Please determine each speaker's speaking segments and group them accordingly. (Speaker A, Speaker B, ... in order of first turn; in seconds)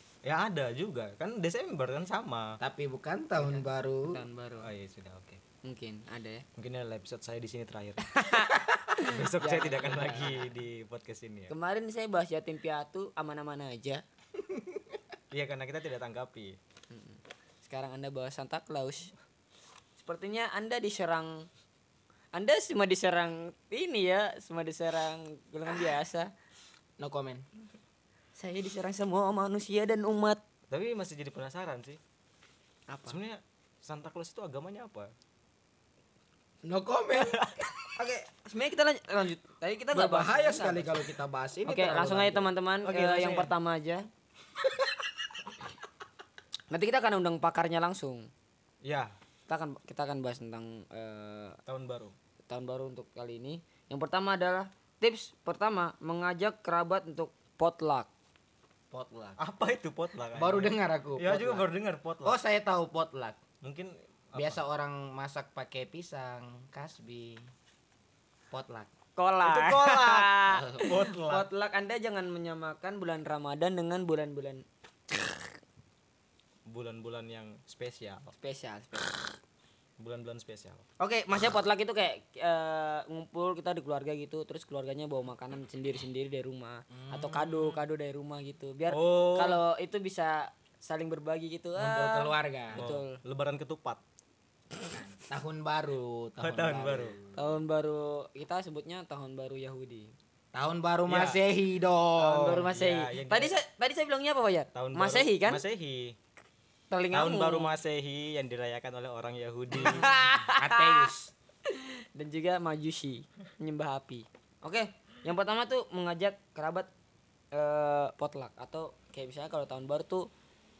Speaker A: 0.2-2.6, 4.6-5.4, 6.6-8.1, 9.0-11.5, 15.3-16.6, 30.7-32.0, 33.1-35.1, 37.2-37.6, 42.8-43.5, 48.8-49.1, 51.7-52.1, 59.4-62.4, 63.6-64.6, 69.4-71.5, 76.7-78.3, 80.0-80.8, 88.9-89.6, 92.7-94.0, 96.4-97.2, 101.1-101.4, 102.2-103.6, 104.7-106.2, 107.1-110.1
Speaker B: 2.6-4.2, 27.0-27.4, 36.6-37.4, 39.9-42.5, 58.9-59.4, 60.3-61.7, 62.2-63.4, 64.4-67.4, 68.5-68.9, 70.5-71.0, 86.9-87.7, 91.8-92.9, 94.9-97.5, 100.5-102.7, 109.7-111.3
Speaker C: 3.4-4.7, 5.6-6.5, 8.1-10.4, 11.5-14.0, 16.9-19.1, 20.0-21.5, 22.3-26.3, 28.3-30.4, 32.9-33.2, 38.0-41.1, 41.6-44.0, 46.7-48.3, 49.5-51.6, 52.5-58.1, 69.2-75.5, 78.4-79.3, 81.0-93.2, 97.3-100.1, 102.4-105.6, 106.9-107.7, 109.8-111.1, 111.7-116.9, 117.5-120.3